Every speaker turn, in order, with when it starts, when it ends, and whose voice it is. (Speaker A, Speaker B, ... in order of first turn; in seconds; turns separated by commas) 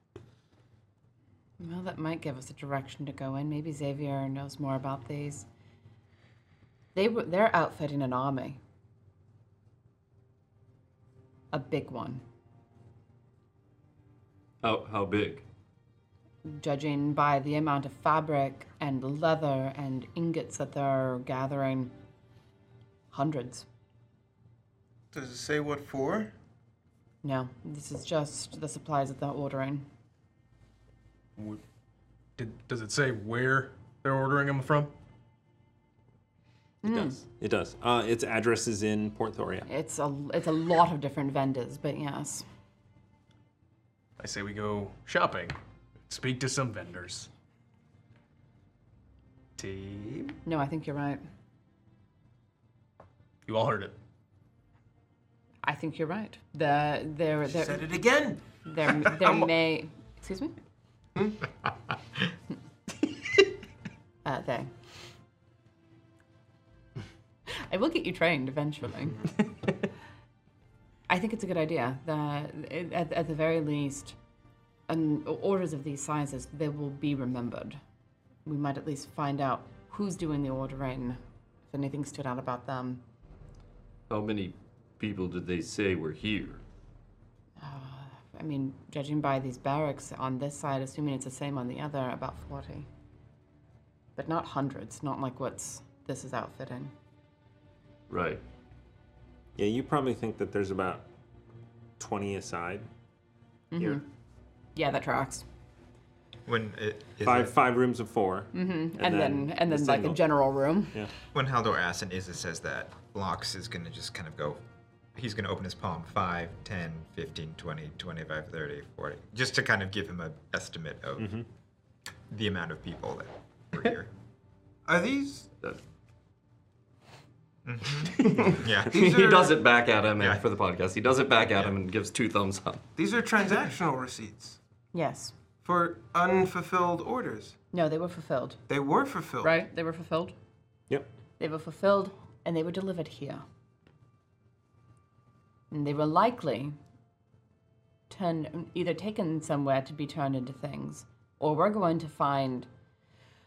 Speaker A: 1.6-5.5, Speaker A: 6.9-8.6, Speaker A: 11.5-12.2, Speaker B: 14.6-15.4, Speaker A: 16.4-21.9, Speaker A: 23.1-23.6, Speaker C: 25.1-26.3, Speaker A: 27.2-29.9, Speaker D: 32.4-34.9, Speaker A: 36.8-37.2, Speaker E: 36.8-39.7, Speaker A: 39.7-42.5, Speaker D: 44.2-45.5, Speaker D: 46.0-47.3, Speaker D: 49.6-50.4, Speaker A: 50.5-51.2, Speaker D: 53.5-53.9, Speaker A: 55.6-57.8, Speaker C: 57.5-58.4, Speaker A: 58.6-60.5, Speaker C: 61.1-61.4, Speaker A: 64.2-64.7, Speaker A: 67.5-69.3, Speaker A: 71.1-74.2, Speaker A: 74.9-77.8, Speaker A: 78.4-83.0, Speaker B: 84.1-86.6, Speaker A: 87.6-92.9, Speaker A: 94.2-96.9, Speaker B: 98.1-98.4, Speaker E: 99.6-101.0, Speaker E: 102.0-102.9, Speaker A: 103.7-104.0, Speaker E: 103.8-104.0, Speaker A: 104.7-105.4, Speaker F: 106.5-107.5, Speaker E: 107.2-110.2, Speaker A: 108.5-111.0, Speaker F: 111.3-114.6, Speaker F: 115.2-121.3, Speaker E: 121.2-121.5, Speaker F: 122.3-124.1, Speaker C: 124.8-125.5, Speaker F: 127.7-128.9, Speaker B: 128.2-132.9, Speaker C: 128.9-129.6, Speaker C: 132.9-134.6, Speaker A: 134.9-135.3, Speaker C: 135.6-137.6, Speaker A: 137.7-138.6, Speaker C: 138.7-139.6, Speaker A: 139.4-140.3, Speaker A: 141.4-143.4, Speaker A: 145.7-146.8, Speaker A: 148.1-152.7